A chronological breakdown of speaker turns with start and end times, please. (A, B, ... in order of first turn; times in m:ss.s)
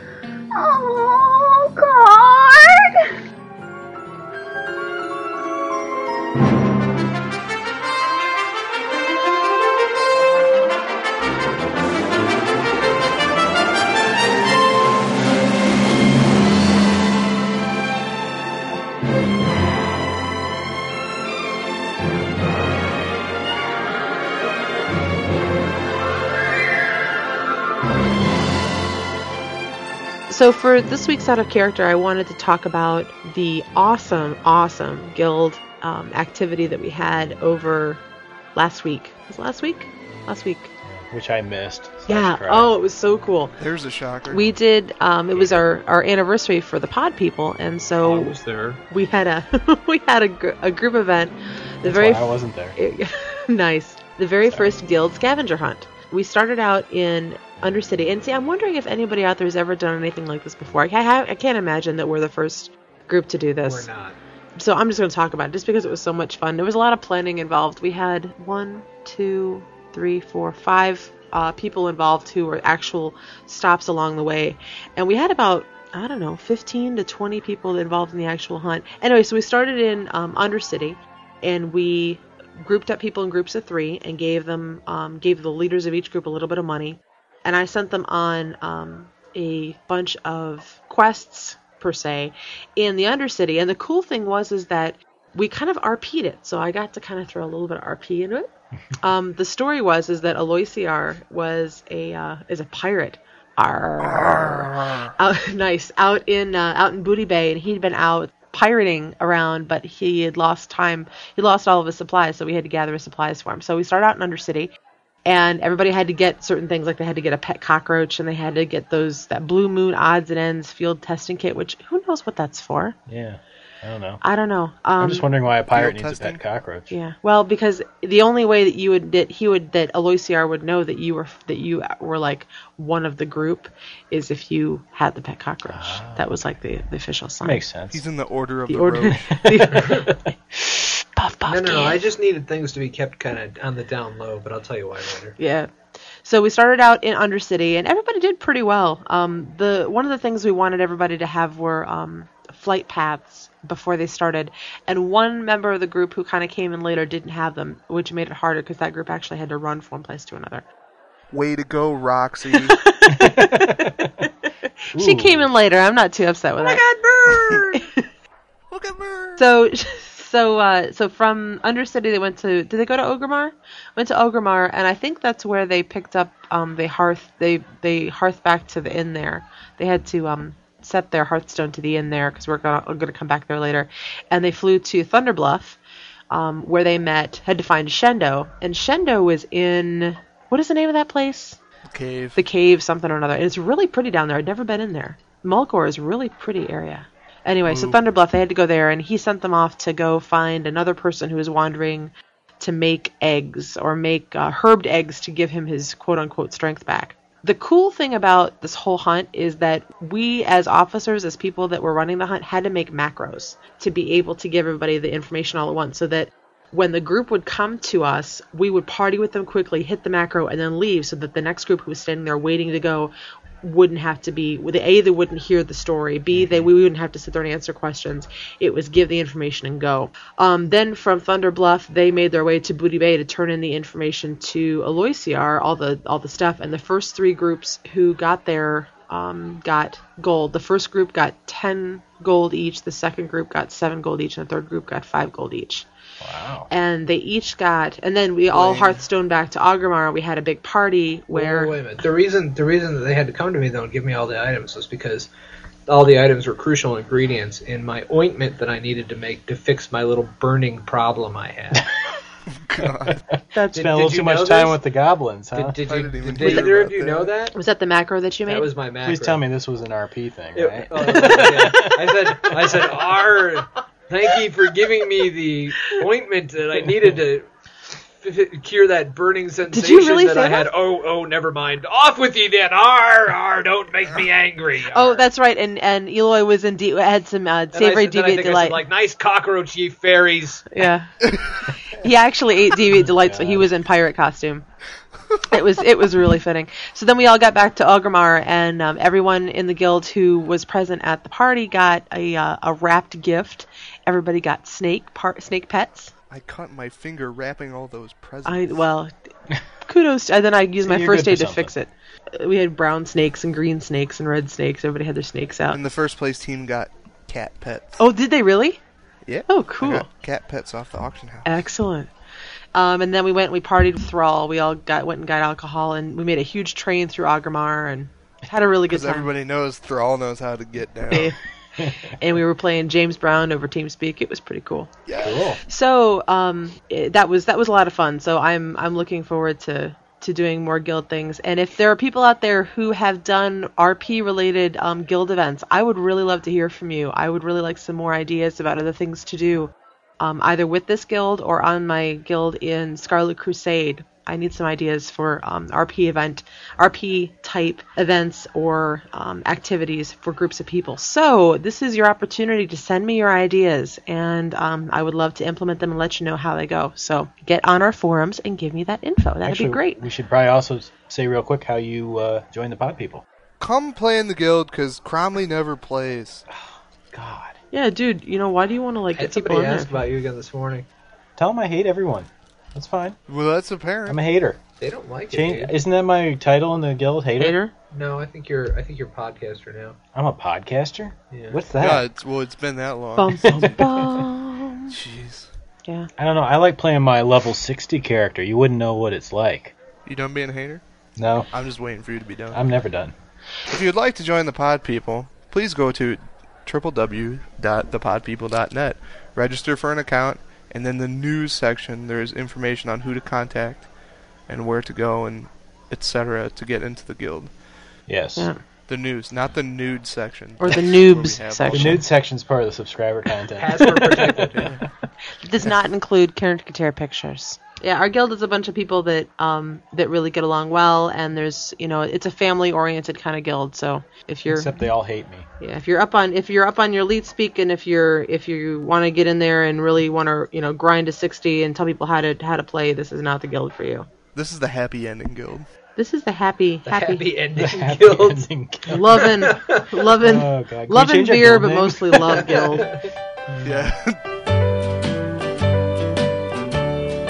0:00.5-0:03.1 A
0:30.3-0:38.0 B
0:38.5-0:40.7 B
0:40.9-0:42.7 C
0:42.1-0:43.5 B
0:43.6-0:44.5 D
0:44.3-0:48.4 B
0:48.0-0:48.8 E
0:48.9-1:03.9 B
0:51.8-0:52.8 C
1:03.6-1:04.2 E
1:04.6-1:54.7 B
1:55.2-2:03.0 B
2:03.1-2:04.2 C
2:04.2-2:05.2 B
2:05.0-2:06.9 C
2:05.7-2:06.4 D
2:06.9-2:17.6 B
2:15.7-2:16.2 C
2:17.4-2:18.0 C
2:17.9-2:19.5 D
2:18.7-2:20.1 B
2:21.2-2:22.0 B
2:21.5-2:25.4 E
2:25.4-2:25.7 B
2:26.2-2:40.6 B
2:41.3-2:42.8 D
2:42.8-2:44.0 B
2:43.1-2:44.1 C
2:44.8-2:48.0 B
2:44.9-2:45.5 C
2:47.2-2:47.8 D
2:48.7-2:49.4 D
2:49.4-3:05.8 B
3:06.3-3:11.6 B
3:11.8-3:12.4 D
3:12.3-4:05.9 B
3:17.6-3:18.0 D
3:46.3-3:46.6 C
4:06.2-4:06.7 C
4:06.7-4:11.8 B
4:08.5-4:09.0 D
4:11.3-4:15.3 E
4:15.9-4:21.8 E
4:22.5-4:23.2 D
4:23.5-4:23.9 B
4:23.7-4:25.8 C
4:23.7-4:24.8 E
4:25.5-4:27.5 E
4:25.8-4:27.3 D
4:27.5-4:28.7 B
4:28.4-4:29.4 E
4:29.0-4:32.5 C
4:30.5-4:37.4 E
4:38.2-4:45.2 E
4:39.7-4:40.7 B
4:44.9-4:48.8 B
4:47.7-4:50.8 E
4:50.7-4:51.1 B
4:52.0-4:54.6 B
4:53.0-4:53.7 C
4:55.5-5:06.1 B
5:06.3-5:08.9 D
5:08.4-5:09.1 B
5:09.8-5:15.8 B
5:10.8-5:11.7 C
5:15.7-5:18.0 D
5:18.0-5:18.8 B
5:19.2-5:21.6 D
5:19.5-5:20.0 B
5:21.4-5:22.1 B
5:22.7-5:29.3 B
5:28.9-5:31.3 D
5:31.1-5:31.3 B
5:31.8-5:32.1 C
5:32.2-5:34.9 B
5:35.0-5:35.5 D
5:35.2-5:35.6 C
5:35.6-6:10.0 B
6:09.4-6:13.2 C
6:13.6-6:16.4 D
6:16.5-6:17.6 C
6:17.7-6:20.0 B
6:19.2-6:20.8 E
6:21.4-6:23.2 C
6:23.3-6:24.2 D
6:24.1-6:24.6 C
6:24.8-6:25.8 E
6:25.3-6:27.6 C
6:27.4-6:27.7 B
6:27.9-6:30.0 E
6:30.1-6:32.0 C
6:31.3-6:31.6 E
6:31.8-6:34.0 D
6:33.2-6:34.9 B
6:33.5-6:34.1 C
6:34.9-6:35.5 D
6:36.2-6:39.7 C
6:40.0-6:40.8 D
6:41.2-6:41.5 C
6:41.5-6:42.6 D
6:42.5-6:43.1 C
6:43.7-6:53.9 D
6:54.5-6:57.5 D
6:58.1-6:58.5 C
6:58.9-7:02.0 D
7:00.6-7:02.0 B
7:01.7-7:04.8 C
7:03.6-7:04.7 E
7:05.4-7:14.8 B
7:14.5-7:15.4 C
7:15.6-7:24.0 B
7:24.3-7:25.7 D
7:26.0-7:27.2 B
7:26.8-7:28.5 E
7:27.6-7:29.3 C
7:28.9-7:32.9 B
7:29.1-7:29.9 E
7:30.2-7:32.9 C
7:32.4-7:33.0 E
7:33.6-7:34.2 D